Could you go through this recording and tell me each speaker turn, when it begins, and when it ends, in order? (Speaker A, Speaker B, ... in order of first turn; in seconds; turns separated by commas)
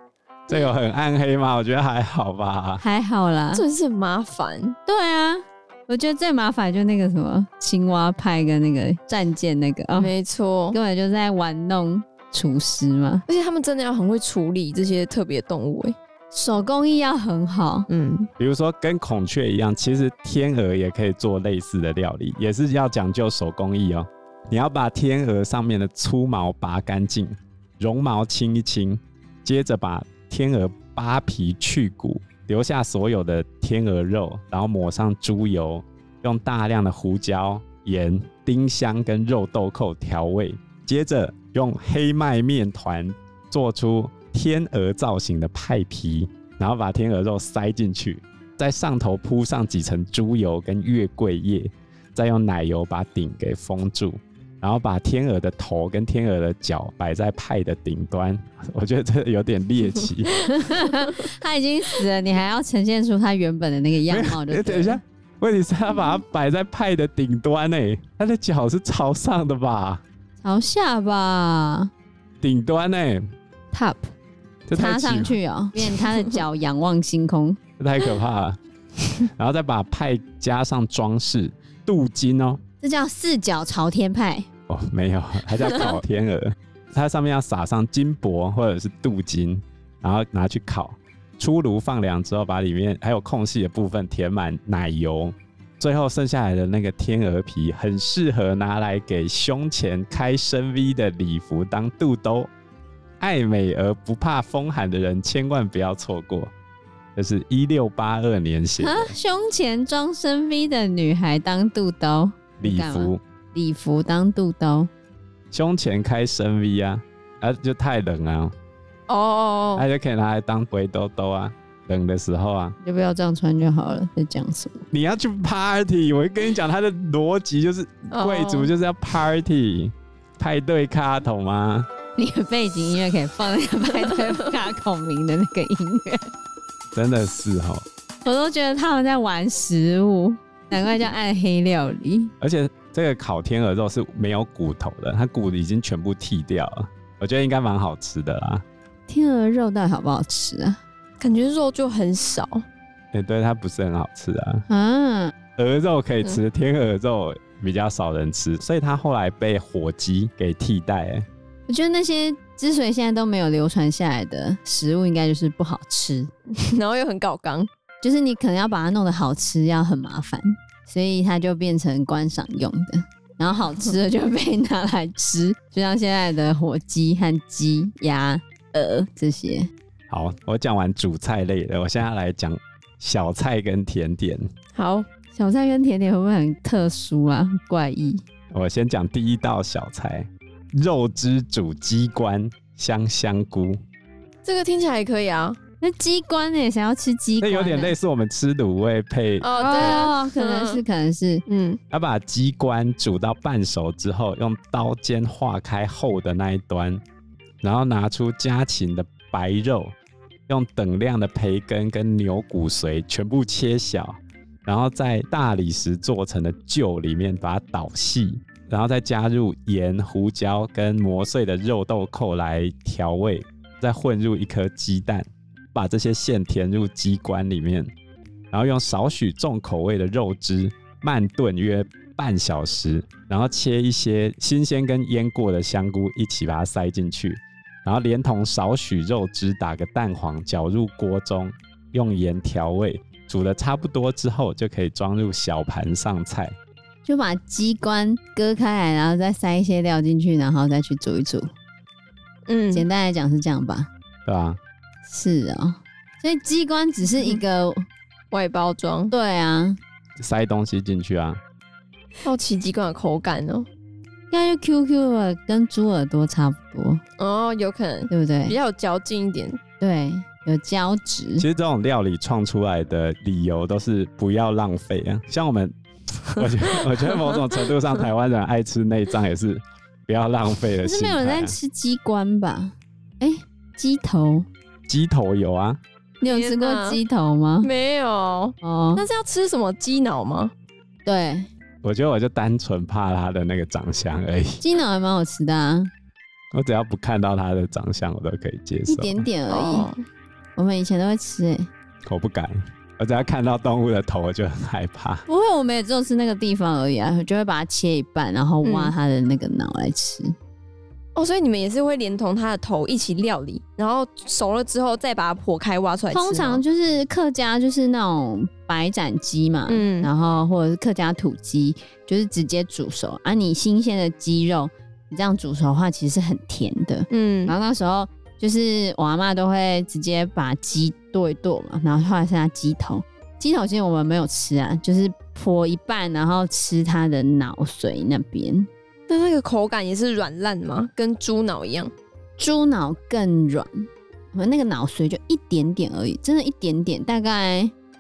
Speaker A: 0.5-2.8, Speaker B: 2.8-3.6, Speaker C: 3.5-4.8, Speaker B: 4.9-10.1, Speaker C: 9.9-10.8, Speaker B: 10.7-13.2, Speaker C: 13.3-15.9, Speaker B: 16.3-17.9, Speaker C: 17.9-18.3, Speaker A: 18.4-60.5, Speaker B: 60.4-65.0, Speaker A: 64.1-70.0, Speaker B: 70.4-71.9, Speaker A: 72.4-73.2, Speaker B: 73.7-74.1, Speaker A: 74.7-75.4, Speaker B: 74.7-77.6, Speaker A: 77.8-78.6, Speaker A: 79.2-82.6, Speaker B: 82.8-84.5, Speaker A: 84.7-102.5, Speaker A: 103.2-106.5, Speaker A: 107.2-109.1, Speaker B: 108.8-114.9, Speaker A: 112.6-113.2, Speaker A: 115.5-118.5, Speaker C: 119.1-119.8, Speaker A: 119.7-122.8, Speaker B: 122.8-124.8, Speaker A: 124.9-131.9, Speaker C: 128.1-128.7, Speaker B: 132.2-136.3, Speaker A: 136.9-137.9, Speaker B: 138.2-142.3, Speaker A: 142.4-148.6, Speaker B: 149.1-150.8, Speaker C: 151.2-152.6, Speaker A: 153.1-154.6, Speaker B: 154.7-155.3, Speaker A: 155.6-161.3, Speaker B: 161.7-166.3, Speaker C: 166.5-167.7, Speaker B: 168.0-179.7, Speaker A: 180.1-184.5, Speaker C: 184.7-185.1, Speaker B: 185.3-188.2, Speaker A: 188.5-193.8, Speaker C: 194.4-195.6, Speaker B: 195.8-197.9, Speaker A: 197.4-200.1, Speaker C: 199.4-200.8, Speaker B: 199.6-201.4, Speaker C: 201.5-201.8, Speaker A: 201.9-207.0, Speaker A: 207.6-209.9, Speaker A: 210.5-227.9, Speaker A: 228.5-246.6, Speaker B: 247.1-251.5, Speaker C: 252.5-252.9, Speaker B: 252.7-253.9, Speaker A: 254.2-254.6, Speaker B: 255.1-257.9, Speaker C: 258.3-259.1, Speaker B: 259.1-259.8, Speaker A: 260.2-261.4, Speaker C: 262.2-263.7, Speaker B: 264.3-267.0, Speaker C: 267.2-269.6, Speaker B: 268.1-268.6, Speaker B: 269.8-271.4, Speaker A: 271.4-275.7, Speaker A: 276.3-281.6, Speaker C: 276.4-277.4, Speaker B: 280.8-284.5, Speaker A: 284.9-285.8, Speaker B: 286.2-287.7, Speaker C: 286.2-287.0, Speaker C: 287.6-290.5, Speaker B: 288.6-289.0, Speaker B: 291.1-291.5, Speaker A: 291.8-294.6, Speaker B: 294.6-295.9, Speaker A: 296.5-299.2, Speaker B: 298.9-299.9, Speaker C: 299.5-300.0, Speaker B: 300.6-301.7, Speaker A: 302.1-305.2, Speaker B: 305.3-310.3, Speaker C: 308.6-308.9, Speaker C: 311.1-316.6, Speaker B: 316.1-338.7, Speaker C: 319.7-320.1, Speaker C: 327.1-327.5, Speaker C: 339.1-341.9, Speaker B: 342.4-347.7